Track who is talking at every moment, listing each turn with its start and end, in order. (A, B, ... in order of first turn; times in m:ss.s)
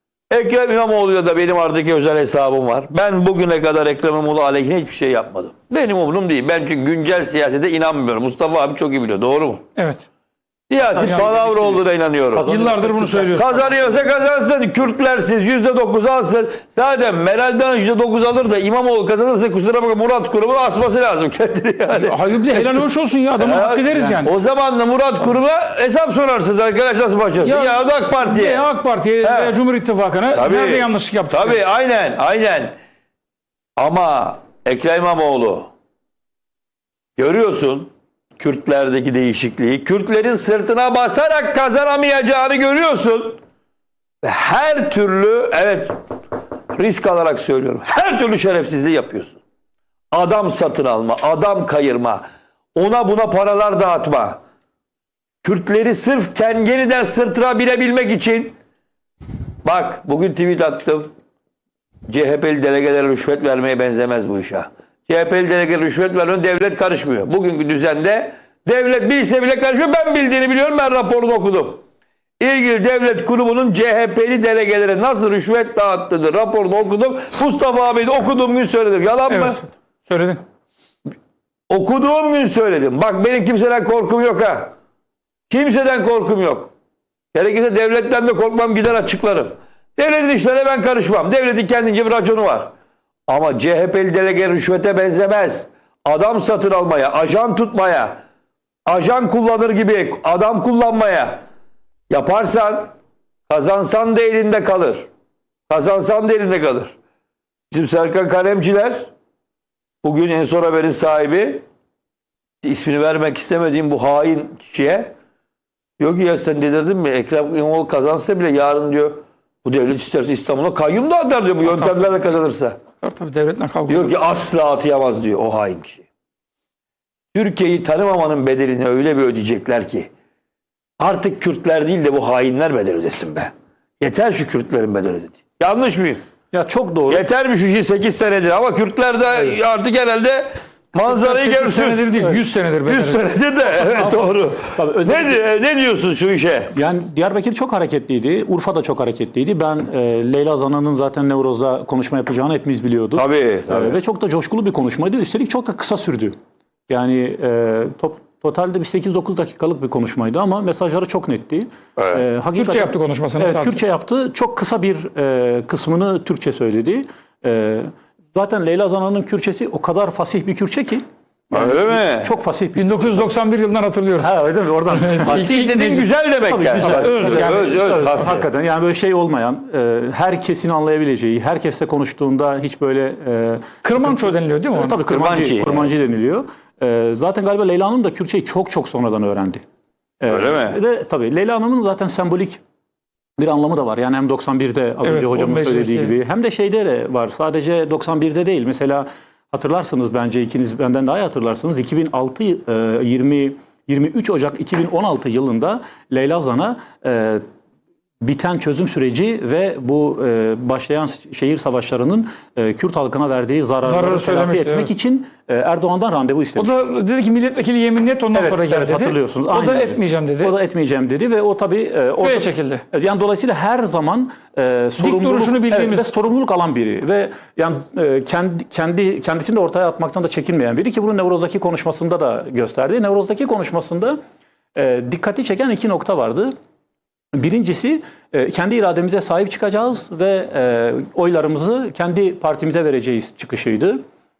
0:00.3-0:09.6 A
0:09.7-0:10.0 B
0:10.7-0:12.5 A
0:10.8-0:14.0 C
0:11.0-0:11.3 B
0:12.4-0:13.5 B
0:13.4-0:22.8 A
0:21.9-0:24.3 B
0:23.3-0:28.7 A
0:27.4-0:31.6 B
0:29.2-0:29.5 A
0:30.3-0:32.7 A
0:33.8-0:35.7 A
0:37.2-0:43.4 A
0:44.2-0:46.0 A
0:46.7-0:49.4 A
0:50.1-0:54.4 A
0:55.4-0:58.5 A
0:59.6-1:01.1 A
1:02.1-1:11.8 A
1:12.4-1:19.6 A
1:19.3-1:20.4 B
1:21.7-1:24.7 A
1:25.5-1:26.7 A
1:27.3-1:32.7 A
1:33.3-1:38.2 A
1:38.8-1:41.4 A
1:42.1-1:42.9 A
1:43.5-1:45.1 A
1:45.7-1:46.9 A
1:47.7-1:49.1 A
1:50.0-1:51.6 A
1:52.6-1:55.1 A
1:56.0-2:02.8 A
2:01.7-2:02.0 B
2:03.0-2:04.1 B
2:03.9-2:06.0 A
2:07.3-2:10.1 A
2:11.0-2:16.2 A
2:16.5-2:17.2 C
2:17.1-2:22.3 A
2:21.0-2:23.3 B
2:22.8-2:26.7 A
2:23.7-2:25.4 C
2:26.7-2:36.3 C
2:33.1-2:34.0 A
2:36.9-2:53.3 C
2:42.5-2:43.8 B
2:51.5-2:52.3 A
2:52.7-2:54.3 B
2:54.2-2:55.5 C
2:54.9-2:56.1 B
2:55.2-2:58.5 A
2:56.4-3:09.6 C
2:56.8-2:58.0 B
3:03.8-3:05.0 B
3:05.1-3:05.9 A
3:10.2-3:12.6 C
3:10.3-3:10.8 A
3:13.4-3:27.4 C
3:15.0-3:16.1 B
3:28.2-3:36.7 C
3:33.8-3:34.9 B
3:36.6-3:40.6 B
3:38.3-3:54.2 C
3:42.2-3:42.8 B
3:45.0-3:46.1 B
3:54.7-3:56.5 C
3:57.3-4:04.0 C